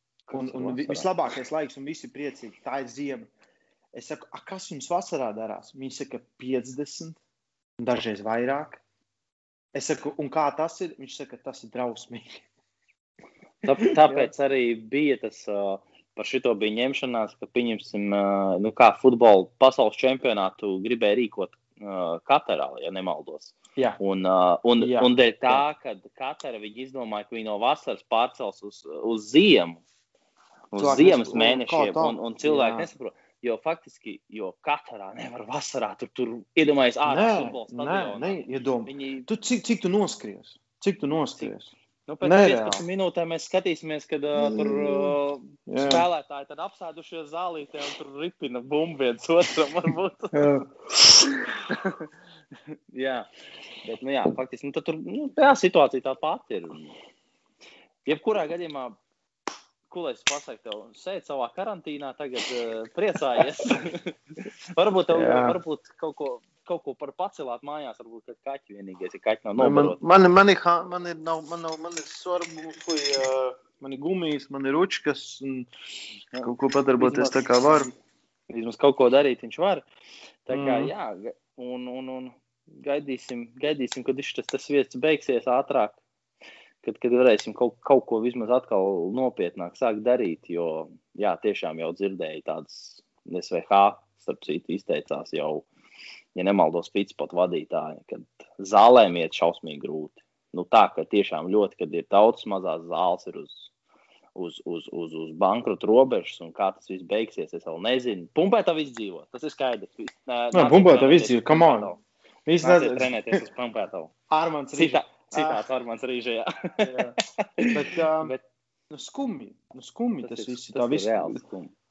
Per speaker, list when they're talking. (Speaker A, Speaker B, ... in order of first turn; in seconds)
Speaker A: 0.3-1.1, 13.6-29.8, 30.7-39.3, 42.1-50.5, 51.3-52.1, 52.9-53.3, 53.8-57.0, 58.0-59.0, 59.9-70.0, 76.3-77.5, 78.5-79.9, 80.5-86.0, 86.8-95.7, 96.3-103.7, 104.3-112.0, 112.6-114.1, 114.8-118.4, 120.2-121.7
Speaker B: 0.3-3.3, 3.9-7.2, 7.8-8.8, 9.7-12.4, 13.7-14.3, 24.8-25.6, 30.8-32.9, 37.1-42.8, 44.4-45.1, 45.7-46.0, 50.3-50.7, 65.1-65.6, 69.6-75.7, 76.4-77.9, 80.5-80.9, 110.5-111.9, 112.5-113.4, 114.3-115.6, 116.8-117.2, 117.7-118.3, 118.9-121.4